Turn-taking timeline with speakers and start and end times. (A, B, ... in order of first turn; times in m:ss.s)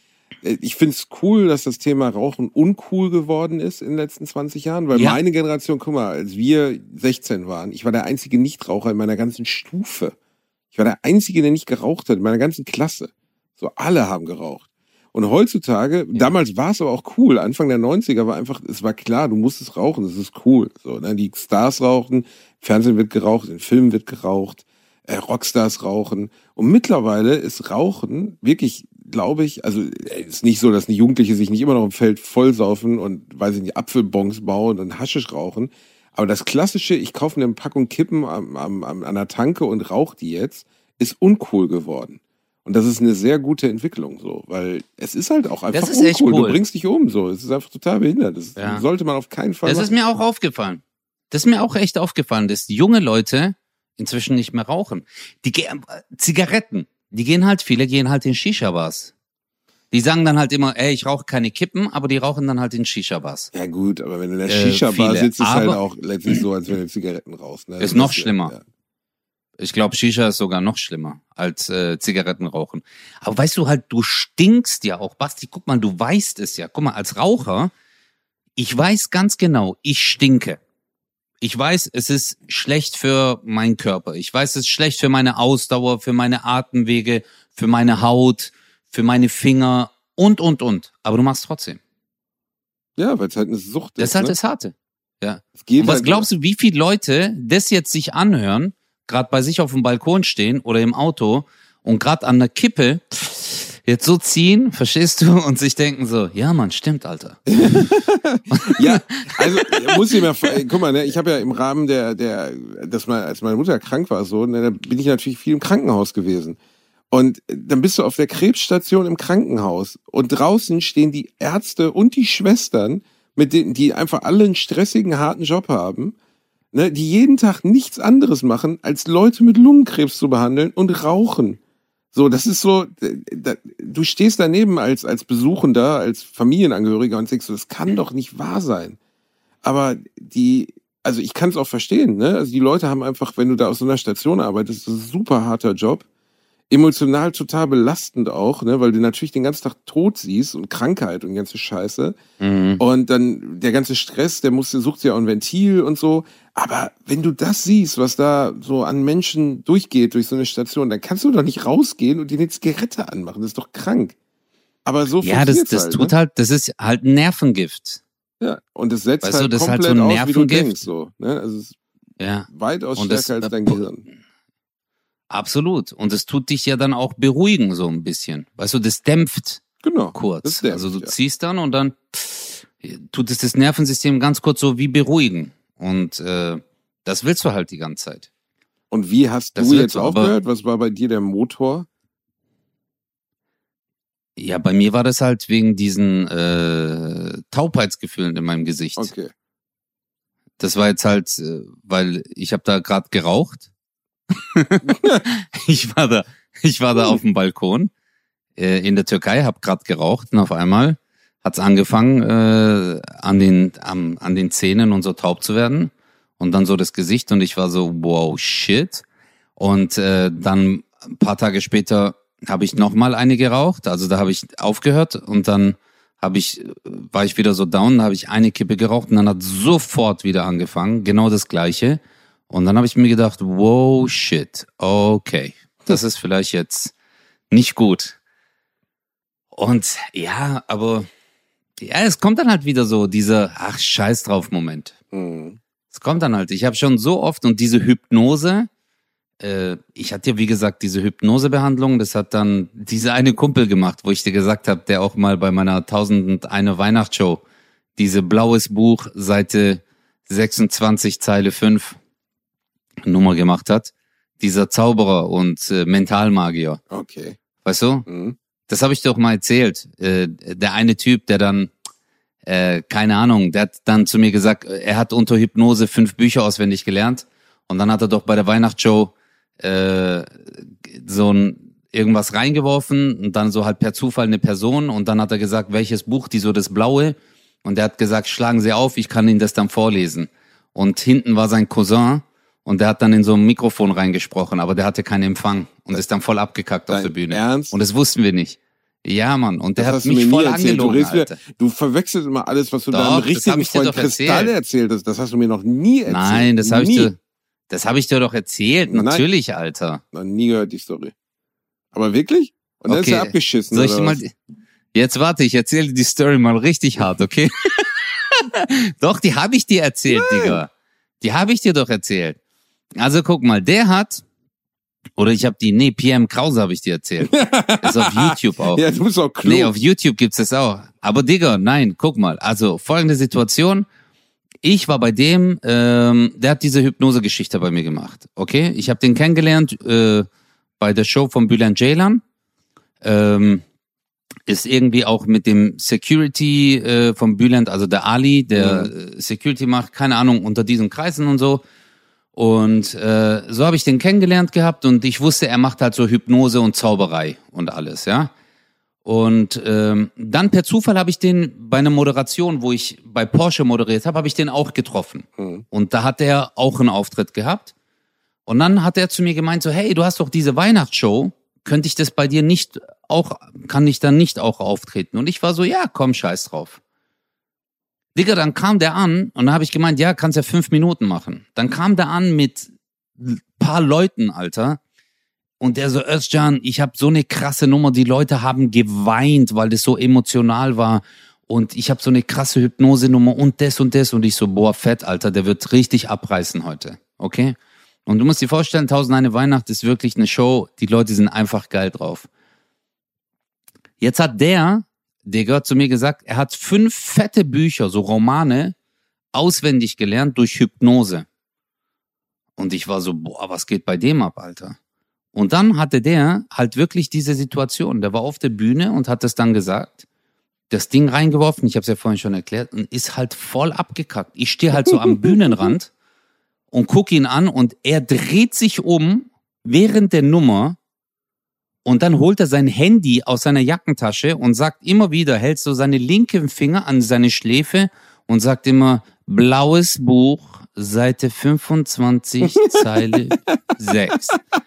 0:00.4-0:10.2 A
0:04.9-0:05.2 B
0:10.7-0:49.9 A
0:45.7-0:46.6 B
0:48.6-0:48.8 B
0:49.6-0:59.1 B
0:59.9-1:03.5 B
1:03.5-1:08.6 A
1:04.5-1:05.8 B
1:07.8-1:08.5 B
1:09.6-1:17.7 B
1:18.6-1:20.6 B
1:21.4-1:31.8 B
1:33.0-1:34.4 A
1:34.0-1:47.9 B
1:35.6-1:36.3 A
1:47.5-1:56.6 A
1:48.5-1:50.5 B
1:57.1-2:06.1 A
2:06.7-2:11.6 A
2:12.1-2:19.0 A
2:19.6-2:26.0 A
2:26.7-2:32.2 A
2:32.4-2:32.8 B
2:32.8-2:44.1 A
2:44.8-2:46.1 A
2:45.2-2:48.0 B
2:48.4-2:51.8 A
2:49.2-2:50.8 B
2:52.2-2:53.8 B
2:52.5-2:54.0 A
2:55.3-2:59.6 B
2:59.8-3:01.1 A
3:00.1-3:08.3 B
3:08.9-3:11.9 A
3:09.6-3:10.4 B
3:14.4-3:19.1 B
3:19.0-3:19.3 A
3:20.6-3:23.7 B
3:24.4-3:27.9 B
3:24.9-3:25.2 A
3:28.6-3:39.0 B
3:39.6-3:56.9 B
3:57.5-3:58.2 B
3:59.5-4:01.1 B
4:01.8-4:04.9 B
4:05.1-4:05.6 A
4:05.9-4:08.7 B
4:09.4-4:17.4 B
4:18.0-4:22.0 B
4:23.0-4:26.8 B
4:26.9-4:27.4 A
4:27.6-4:28.1 B
4:28.1-4:28.4 A
4:28.7-4:31.7 B
4:32.4-5:01.4 B
4:56.9-4:57.8 A
4:59.8-5:07.1 A
5:02.9-5:04.5 B
5:06.1-5:07.2 B
5:07.7-5:10.0 B
5:08.9-5:09.3 A
5:10.1-5:11.1 A
5:11.9-5:14.2 A
5:12.9-5:14.3 B
5:14.9-5:20.7 B
5:20.1-5:20.6 A
5:21.2-5:22.4 B
5:23.0-5:24.2 B
5:25.2-5:28.8 B
5:27.2-5:29.7 A
5:29.4-5:33.9 B
5:34.6-5:40.3 B
5:40.8-5:42.2 B
5:43.0-5:43.6 B
5:44.5-5:51.6 B
5:48.5-5:48.9 A
5:52.4-5:58.3 B
5:59.0-6:07.7 B
6:05.4-6:05.6 A
6:08.4-6:16.8 B
6:18.1-6:24.8 B
6:25.6-6:42.3 B
6:44.0-6:48.8 B
6:49.3-6:51.3 B
6:52.6-6:54.8 B
6:55.3-7:00.0 B
7:00.7-7:05.9 B
7:04.9-7:05.7 A
7:06.7-7:10.8 B
7:11.8-7:24.4 B
7:22.5-7:23.7 A